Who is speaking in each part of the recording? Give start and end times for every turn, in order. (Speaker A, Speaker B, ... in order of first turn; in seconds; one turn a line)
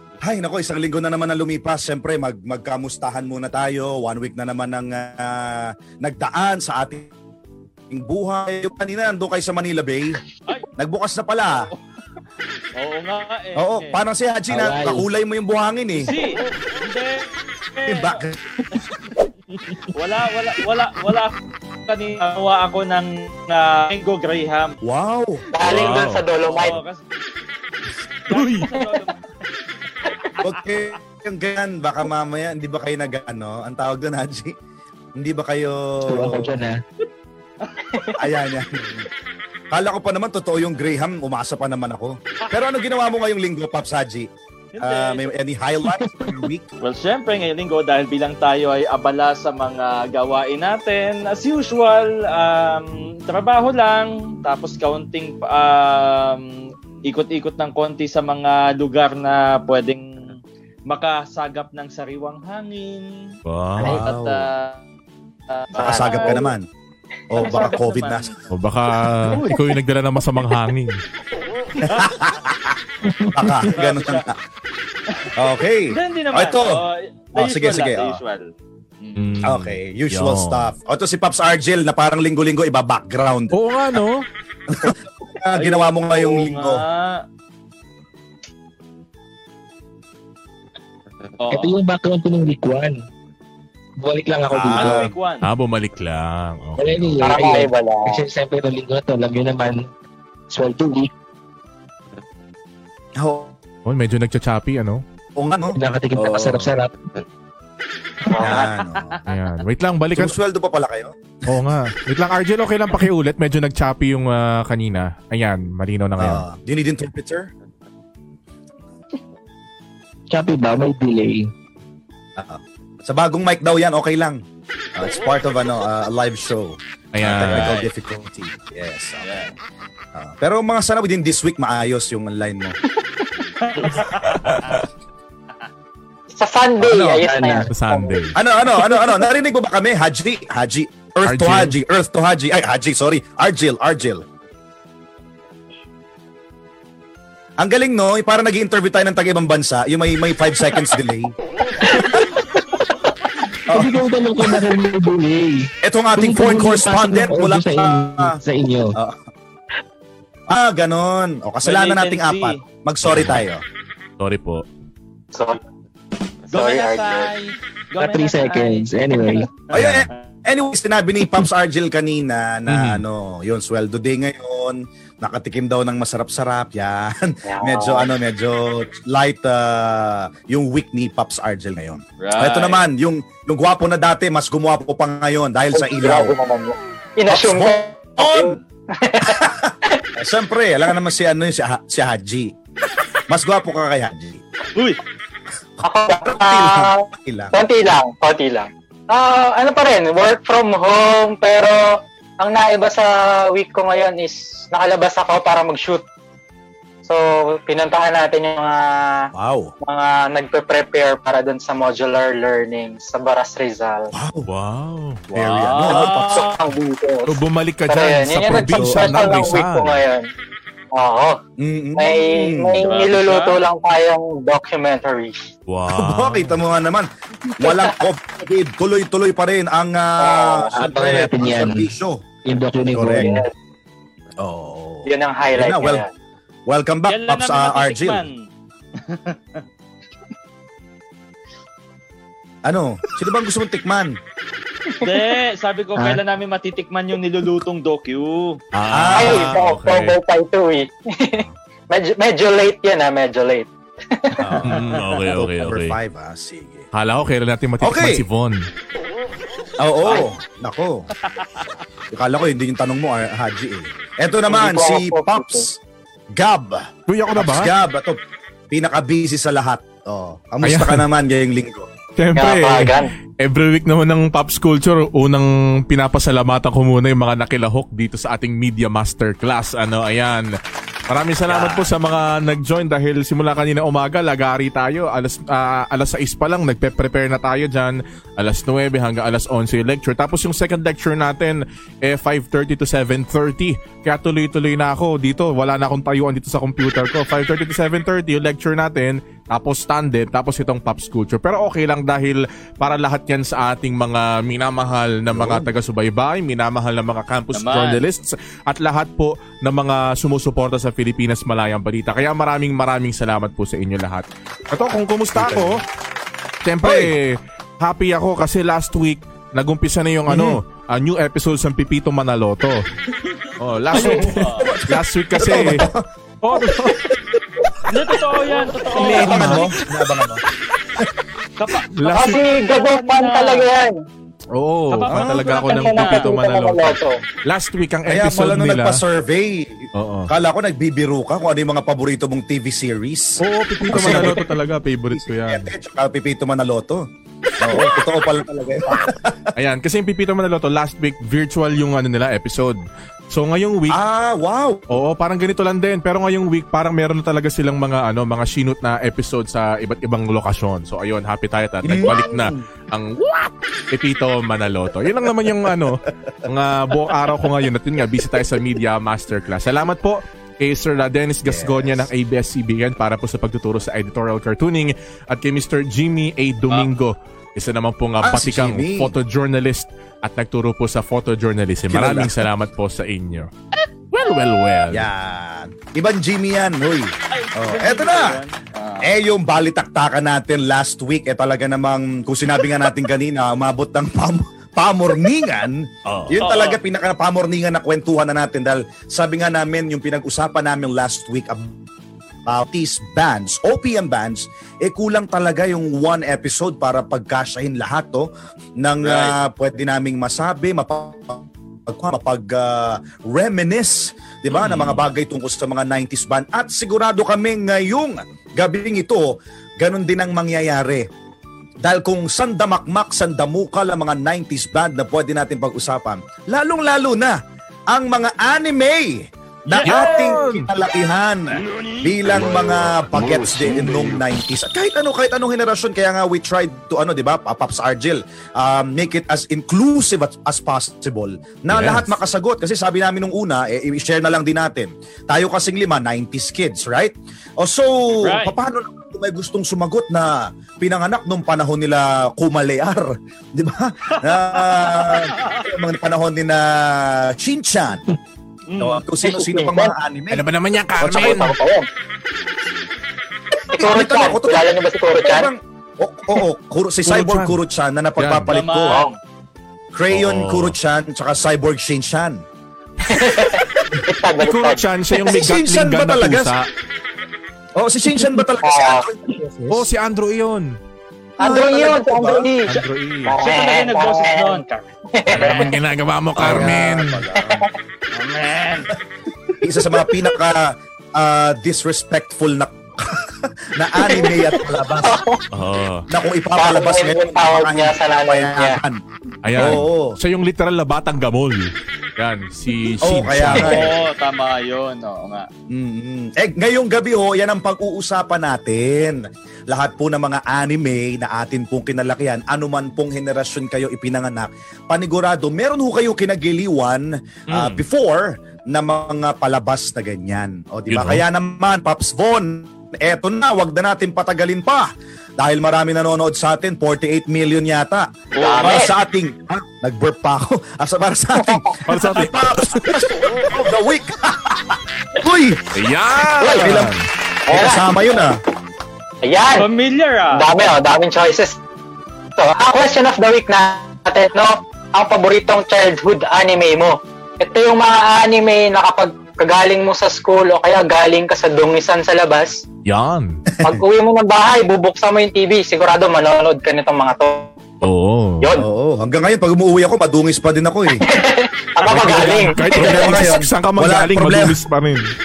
Speaker A: 0.2-7.1
Speaker A: 7.9-10.2
Speaker A: 10.8-11.7
Speaker B: 11.5-11.8
Speaker B: 12.8-14.0
Speaker A: 13.6-16.1
Speaker C: 14.5-15.1
Speaker B: 16.0-18.2
Speaker A: 17.9-18.6
Speaker B: 19.6-21.4
Speaker B: 21.9-24.8
Speaker A: 24.8-25.4
Speaker D: 25.5-26.8
Speaker E: 25.6-26.3
Speaker B: 26.4-27.0
Speaker B: 28.3-29.2
Speaker E: 28.3-28.7
Speaker A: 30.4-34.5
Speaker A: 35.1-36.5
Speaker C: 36.0-36.8
Speaker A: 38.1-39.1
Speaker A: 39.7-44.3
Speaker B: 44.7-45.3
Speaker A: 44.8-46.7
Speaker C: 46.0-46.4
Speaker B: 46.8-60.3
Speaker B: 60.9-64.8
Speaker E: 63.4-64.1
Speaker A: 63.8-64.5
Speaker B: 65.5-66.5
Speaker D: 65.8-66.4
Speaker A: 65.8-66.6
Speaker A: 67.3-68.3
Speaker B: 67.4-68.3
Speaker E: 68.5-71.0
Speaker A: 71.8-72.8
Speaker C: 73.0-73.7
Speaker A: 73.3-74.4
Speaker B: 73.7-74.2
Speaker A: 75.3-76.8
Speaker B: 75.9-78.5
Speaker A: 77.3-78.2
Speaker E: 79.2-80.7
Speaker A: 79.4-84.0
Speaker E: 83.5-84.2
Speaker A: 84.7-86.8
Speaker B: 85.5-87.2
Speaker B: 91.4-91.7
Speaker C: 91.5-93.0
Speaker C: 94.0-95.1
Speaker A: 94.5-95.1
Speaker B: 94.7-95.5
Speaker E: 95.4-97.2
Speaker C: 96.8-99.9
Speaker D: 97.2-98.2
Speaker C: 100.5-101.1
Speaker A: 103.2-103.5
Speaker E: 103.8-105.0
Speaker A: 105.3-105.8
Speaker C: 105.7-107.2
Speaker D: 108.3-108.6
Speaker B: 108.3-109.3
Speaker A: 108.4-109.2
Speaker E: 109.3-110.3
Speaker A: 110.2-111.1
Speaker E: 111.5-116.4
Speaker A: 116.2-117.5
Speaker C: 120.3-121.5
Speaker A: 122.4-124.4
Speaker A: 125.0-129.4
Speaker E: 127.1-127.8
Speaker B: 127.4-127.9
Speaker B: 129.2-129.5
Speaker A: 130.1-132.8
Speaker B: 133.6-134.8
Speaker E: 134.4-134.8
Speaker D: 136.3-138.2
Speaker C: 136.8-137.7
Speaker A: 136.8-137.2
Speaker E: 137.7-138.4
Speaker A: 138.3-144.2
Speaker E: 141.2-141.8
Speaker A: 147.6-151.3
Speaker C: 153.7-158.9
Speaker A: 153.7-154.6
Speaker A: 155.8-158.4
Speaker A: 158.9-159.2
Speaker A: 160.5-163.6
Speaker B: 161.6-162.6
Speaker E: 163.0-163.4
Speaker E: 164.2-164.6
Speaker D: 165.3-165.6
Speaker B: 166.5-170.2
Speaker D: 166.5-167.3
Speaker C: 168.0-169.5
Speaker A: 169.7-186.3
Speaker E: 169.8-170.0
Speaker E: 172.7-173.0
Speaker D: 177.4-178.1
Speaker B: 182.2-182.8
Speaker D: 185.7-190.0
Speaker A: 187.3-188.6
Speaker A: 189.2-192.5
Speaker A: 193.3-194.4
Speaker A: 195.8-197.6
Speaker D: 195.8-206.0
Speaker D: 207.0-209.3
Speaker A: 209.3-209.7
Speaker D: 209.8-214.1
Speaker A: 214.1-214.5
Speaker E: 214.4-215.8
Speaker A: 215.3-216.5
Speaker B: 215.6-216.7
Speaker D: 215.8-220.3
Speaker E: 217.3-220.0
Speaker A: 218.5-219.2
Speaker D: 220.9-221.4
Speaker A: 221.6-222.9
Speaker D: 221.9-225.4
Speaker B: 222.8-223.6
Speaker E: 225.7-226.6
Speaker A: 225.9-227.1
Speaker D: 227.5-228.0
Speaker A: 227.6-232.2
Speaker D: 230.2-230.7
Speaker C: 230.7-231.9
Speaker C: 232.4-233.4
Speaker A: 232.9-233.4
Speaker A: 234.4-236.0
Speaker D: 235.1-236.1
Speaker A: 236.7-238.2
Speaker B: 237.1-238.4
Speaker B: 239.1-239.6
Speaker A: 242.6-244.2
Speaker B: 245.0-248.6
Speaker E: 248.7-250.1
Speaker A: 248.9-250.1
Speaker D: 249.1-254.6
Speaker A: 254.4-256.9
Speaker E: 254.6-256.0
Speaker E: 256.9-258.7
Speaker A: 257.8-258.2
Speaker A: 259.8-261.1
Speaker B: 261.3-261.6
Speaker A: 262.1-265.8
Speaker D: 264.5-265.6
Speaker A: 266.3-268.2
Speaker E: 267.1-267.7
Speaker A: 268.7-271.9
Speaker E: 270.6-271.0
Speaker E: 272.2-280.5
Speaker D: 272.4-273.1
Speaker E: 281.1-315.8
Speaker A: 281.4-281.9
Speaker A: 305.3-305.7
Speaker B: 307.5-308.0
Speaker A: 315.3-315.8
Speaker E: 316.6-322.8
Speaker A: 316.8-317.1
Speaker A: 320.3-320.6
Speaker E: 323.6-325.9
Speaker B: 323.9-324.7
Speaker A: 324.0-327.2
Speaker E: 326.4-327.1
Speaker B: 327.9-329.7
Speaker A: 328.9-330.4
Speaker E: 329.0-330.2
Speaker B: 331.6-333.7
Speaker E: 331.8-332.4
Speaker D: 332.1-334.0
Speaker E: 334.5-339.0
Speaker B: 334.9-336.2
Speaker D: 335.7-337.2
Speaker A: 338.1-344.5
Speaker E: 339.9-340.3
Speaker E: 343.4-345.7
Speaker A: 345.1-347.0
Speaker A: 347.6-349.5
Speaker E: 349.6-352.8
Speaker E: 353.3-354.0
Speaker A: 353.9-354.9
Speaker E: 354.9-383.5
Speaker A: 361.8-362.7
Speaker A: 371.4-372.1
Speaker A: 378.2-379.1
Speaker A: 381.9-382.4
Speaker E: 384.1-385.1
Speaker A: 384.9-388.4
Speaker B: 387.3-389.1
Speaker A: 389.0-401.8
Speaker E: 396.1-396.4
Speaker B: 396.4-396.8
Speaker A: 402.4-408.3
Speaker A: 408.8-421.1
Speaker E: 409.1-409.3
Speaker E: 414.5-415.0
Speaker A: 421.8-427.4
Speaker A: 427.9-458.0
Speaker B: 429.7-430.4
Speaker E: 429.8-430.7
Speaker E: 441.7-442.2
Speaker B: 448.2-448.5
Speaker B: 454.2-455.6
Speaker B: 458.7-459.0
Speaker A: 458.8-460.4
Speaker D: 459.2-459.9
Speaker E: 460.3-461.5
Speaker A: 461.0-461.4
Speaker D: 461.0-461.9
Speaker D: 463.7-465.5
Speaker A: 463.7-469.0
Speaker E: 467.1-467.6
Speaker E: 468.2-468.5
Speaker B: 468.5-469.1
Speaker A: 469.9-472.4
Speaker E: 470.1-470.8
Speaker D: 473.1-474.8
Speaker E: 474.4-476.7
Speaker A: 475.2-476.5
Speaker A: 477.8-479.8
Speaker D: 478.6-479.0
Speaker E: 479.7-480.8
Speaker A: 481.4-482.5
Speaker D: 481.4-484.6
Speaker E: 482.7-483.4
Speaker B: 483.4-485.7
Speaker D: 485.1-485.8
Speaker E: 485.3-487.2
Speaker A: 486.4-487.7
Speaker D: 487.4-487.6
Speaker B: 488.1-488.9
Speaker A: 489.6-495.2
Speaker D: 494.0-495.4
Speaker E: 495.5-496.1
Speaker A: 496.1-499.0
Speaker D: 496.5-498.8
Speaker E: 499.4-503.9
Speaker A: 499.5-500.1
Speaker A: 503.0-503.9
Speaker B: 503.6-505.5
Speaker A: 505.7-528.1
Speaker E: 517.5-517.8
Speaker E: 520.9-521.2
Speaker B: 528.3-528.9
Speaker D: 528.4-528.9
Speaker A: 528.6-535.6
Speaker E: 531.9-532.9
Speaker E: 535.7-537.0
Speaker A: 536.3-536.9
Speaker D: 537.5-537.9
Speaker A: 537.5-538.4
Speaker D: 539.2-539.7
Speaker B: 539.5-540.7
Speaker D: 540.3-541.6
Speaker D: 542.4-552.6
Speaker E: 552.9-553.4
Speaker A: 553.5-553.8
Speaker D: 553.6-557.5
Speaker E: 557.8-558.5
Speaker D: 558.4-558.7
Speaker A: 558.6-561.0
Speaker D: 560.9-563.3
Speaker A: 561.8-564.6
Speaker E: 561.9-565.1